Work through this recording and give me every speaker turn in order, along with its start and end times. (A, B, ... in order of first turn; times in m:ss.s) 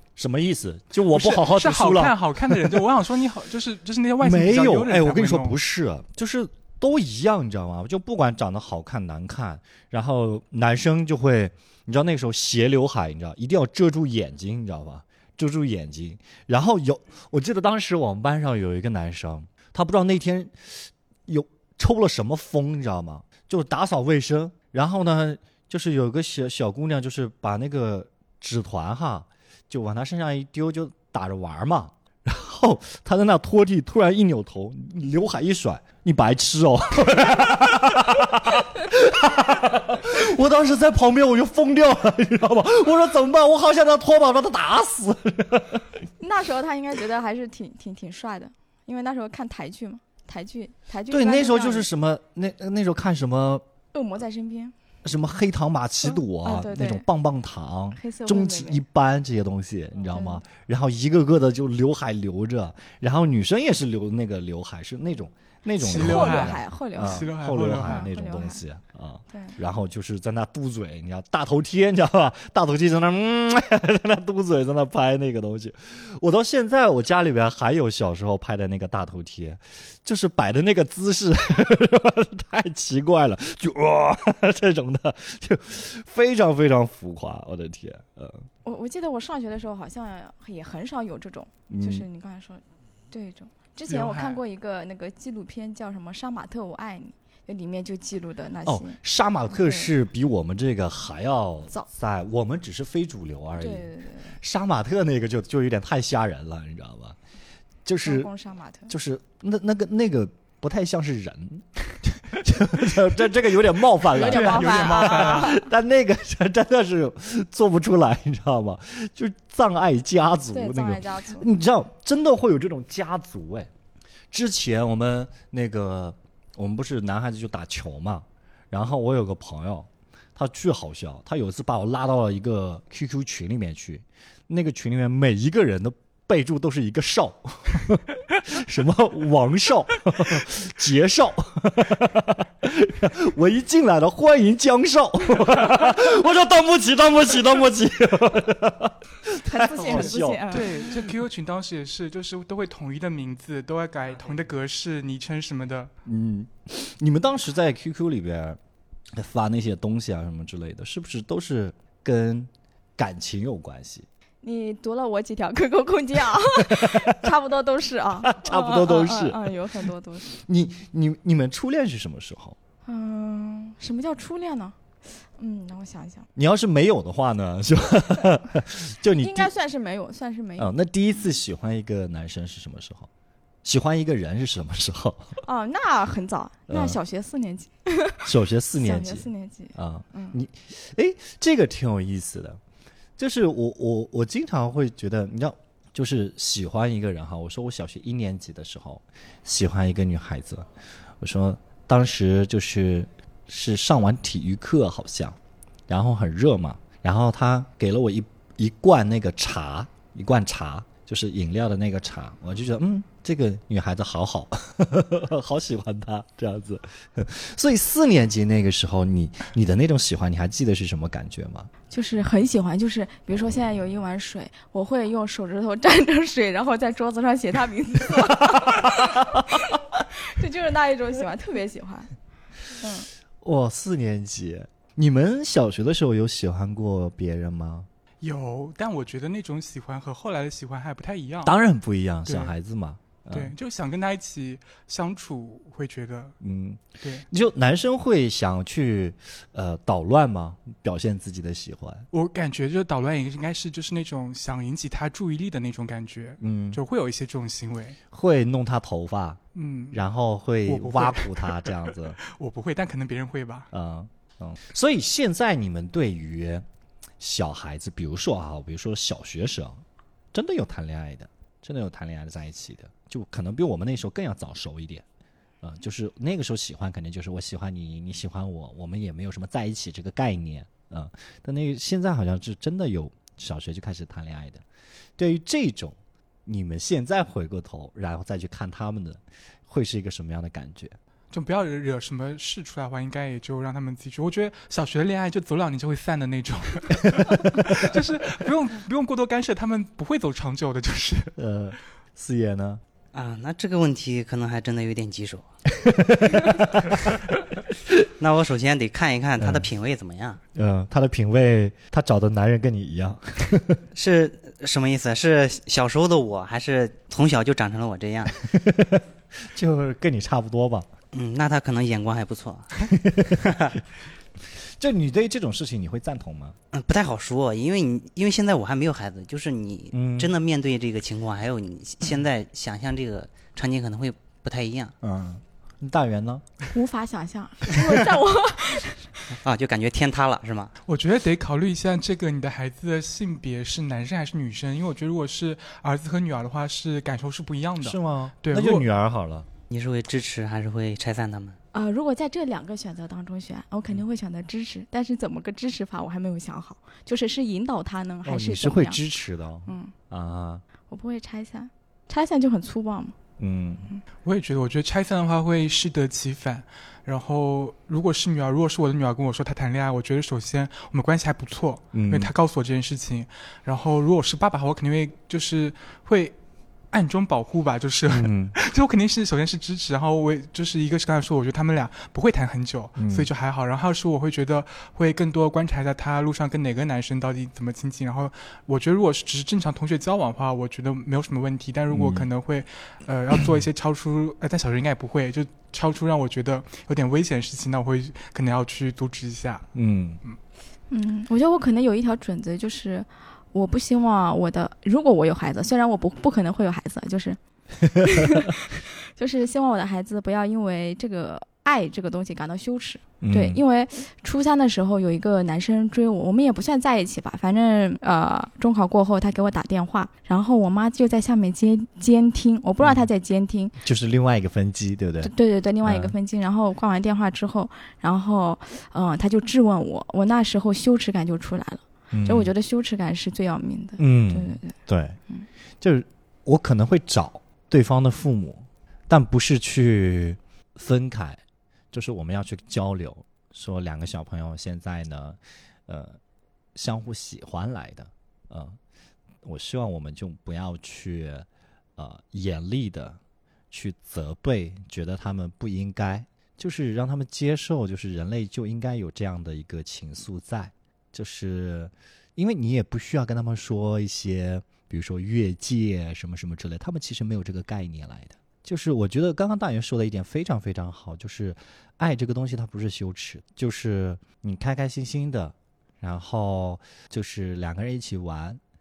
0:00.2-0:02.9 A
0:01.1-0:05.6 B
0:04.2-0:45.9 A
0:46.2-0:51.9 C
0:51.1-0:53.6 A
0:53.9-0:54.7 C
0:55.0-1:28.4 A
0:56.0-0:57.0 C
0:57.9-0:58.8 C
1:00.1-1:00.4 C
1:05.8-1:08.1 B
1:05.8-1:08.6 C
1:09.3-1:09.6 C
1:28.6-1:39.0 C
1:31.7-1:32.0 A
1:33.9-1:34.4 B
1:38.6-1:43.9 A
1:39.5-1:39.9 C
1:43.5-1:44.4 C
1:44.4-1:47.2 A
1:47.8-1:48.3 A
1:48.0-1:48.9 C
1:48.9-2:03.7 A
1:54.1-1:55.7 C
1:54.1-1:55.6 B
2:00.5-2:01.5 C
2:04.3-2:31.2 A
2:29.4-2:30.7 C
2:29.9-2:35.9 B
2:36.0-2:38.6 A
2:39.1-2:44.0 A
2:44.4-2:50.3 C
2:46.6-2:47.2 A
2:48.2-2:49.7 A
2:50.3-2:52.6 A
2:52.8-2:56.3 C
2:56.4-2:59.5 A
2:59.2-3:00.7 C
3:00.6-3:03.1 A
3:03.6-3:05.4 A
3:05.4-3:10.4 C
3:06.7-3:07.0 A
3:08.2-3:12.6 A
3:13.2-3:20.7 A
3:21.2-3:25.4 A
3:25.9-3:41.7 A
3:41.9-3:52.1 C
3:48.3-3:49.4 A
3:52.8-3:53.1 C
3:53.4-3:57.9 A
3:58.2-4:01.5 B
4:01.4-4:03.5 A
4:02.2-4:02.5 B
4:03.3-4:06.4 B
4:06.4-4:12.1 A
4:07.0-4:07.2 B
4:12.1-4:18.0 B
4:16.4-4:16.8 A
4:18.1-4:19.4 A
4:19.5-4:20.0 B
4:19.9-4:22.2 A
4:20.6-4:23.7 B
4:23.7-4:26.6 A
4:27.2-4:29.8 A
4:30.3-4:35.0 A
4:35.6-4:44.6 A
4:45.2-4:50.9 A
4:51.3-5:01.3 B
5:01.4-5:02.8 A
5:03.1-5:05.4 D
5:05.7-5:07.0 A
5:08.2-5:10.4 D
5:09.4-5:09.7 A
5:10.5-5:13.8 A
5:13.9-5:18.4 D
5:18.4-5:20.9 A
5:21.1-5:23.8 D
5:22.8-5:23.5 A
5:24.8-5:26.6 A
5:26.7-5:34.9 D
5:29.9-5:30.3 A
5:35.0-5:36.4 A
5:36.7-5:39.1 C
5:37.7-5:38.0 A
5:39.4-5:40.7 D
5:40.8-5:48.8 B
5:47.8-5:49.5 A
5:49.7-5:51.6 D
5:51.7-5:59.0 C
5:58.2-6:00.6 A
5:59.7-5:59.9 C
6:00.9-6:03.1 C
6:03.4-6:03.9 A
6:04.2-6:16.3 B
6:11.9-6:12.3 A
6:16.9-6:39.7 B
6:18.1-6:18.5 A
6:23.0-6:23.3 A
6:31.9-6:32.3 A
6:39.7-6:40.2 A
6:40.9-6:47.4 C
6:47.8-6:48.5 A
6:48.0-7:03.7 C
6:53.2-6:53.6 A
7:03.8-7:05.3 A
7:05.2-7:14.8 C
7:05.8-7:06.1 A
7:12.1-7:12.5 A
7:14.0-7:15.2 A
7:15.8-7:21.4 A
7:21.9-7:26.2 A
7:26.7-7:28.8 A
7:29.4-7:33.2 A
7:33.7-7:58.6 A